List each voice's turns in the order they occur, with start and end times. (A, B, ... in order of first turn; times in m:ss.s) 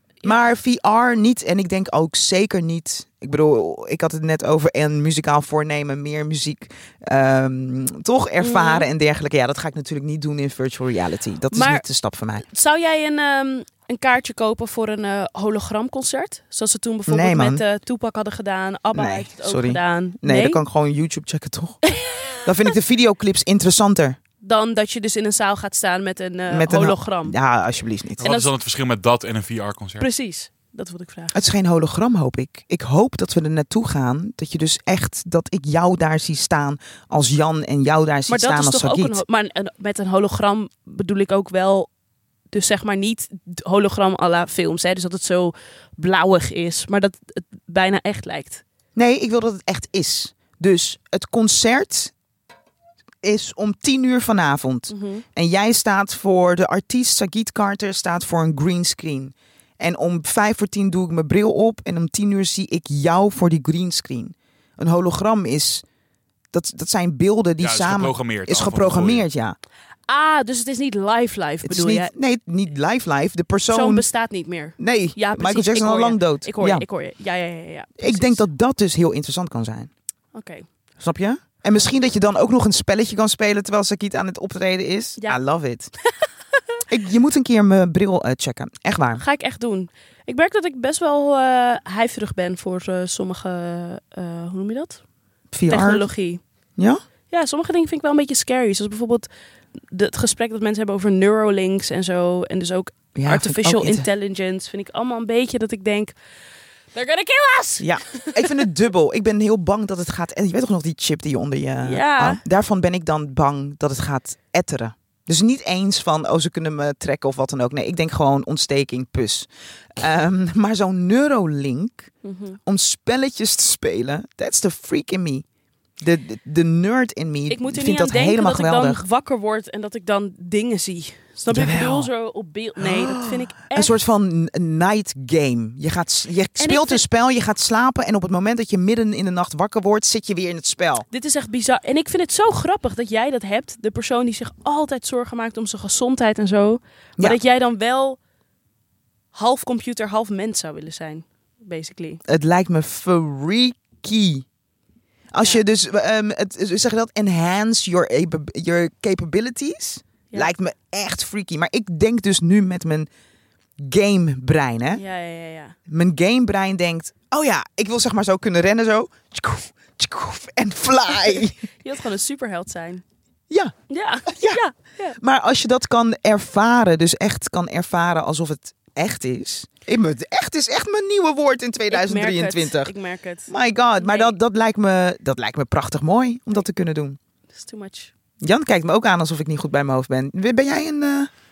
0:00.2-0:12.4 A
0:08.4-0:08.9 B
0:11.5-0:11.8 B
0:12.4-0:20.6 B
0:17.1-0:17.6 A
0:18.9-0:21.9 A
0:21.9-0:22.3 B
0:22.4-0:24.2 A
0:24.4-0:27.3 B
0:26.5-0:28.3 A
0:28.2-0:30.1 C
0:28.2-0:28.5 B
0:30.0-0:31.3 B
0:31.3-0:39.2 A
0:38.3-0:41.9 B
0:42.5-0:48.6 B
0:48.9-0:52.1 A
0:53.2-1:05.8 A
0:54.9-0:55.2 B
1:06.5-1:09.6 A
1:07.6-1:09.2 C
1:10.1-1:12.1 B
1:11.6-1:14.0 A
1:13.7-1:18.4 B
1:14.8-1:16.8 A
1:18.0-1:19.9 A
1:20.3-1:20.7 B
1:21.0-1:25.9 A
1:26.9-1:29.2 A
1:29.2-1:35.0 B
1:35.5-1:36.0 A
1:35.7-1:36.4 B
1:37.3-1:39.3 B
1:39.9-1:46.1 B
1:43.1-1:44.1 A
1:46.9-1:48.5 B
1:47.8-2:05.4 A
1:51.8-1:52.4 B
2:02.2-2:02.6 B
2:06.0-2:09.0 A
2:07.5-2:13.9 B
2:11.5-2:12.1 A
2:12.8-2:21.1 A
2:16.6-2:17.0 B
2:21.1-2:28.2 B
2:29.3-2:32.2 B
2:32.2-2:34.4 A
2:35.3-2:43.1 A
2:43.8-2:45.0 A
2:44.9-2:45.8 B
2:45.9-2:51.6 A
2:51.3-2:53.0 B
2:53.9-2:55.2 B
2:54.2-2:54.6 A
2:55.2-3:02.9 A
3:01.9-3:04.4 B
3:03.5-3:07.2 A
3:07.5-3:08.1 B
3:08.4-3:11.3 A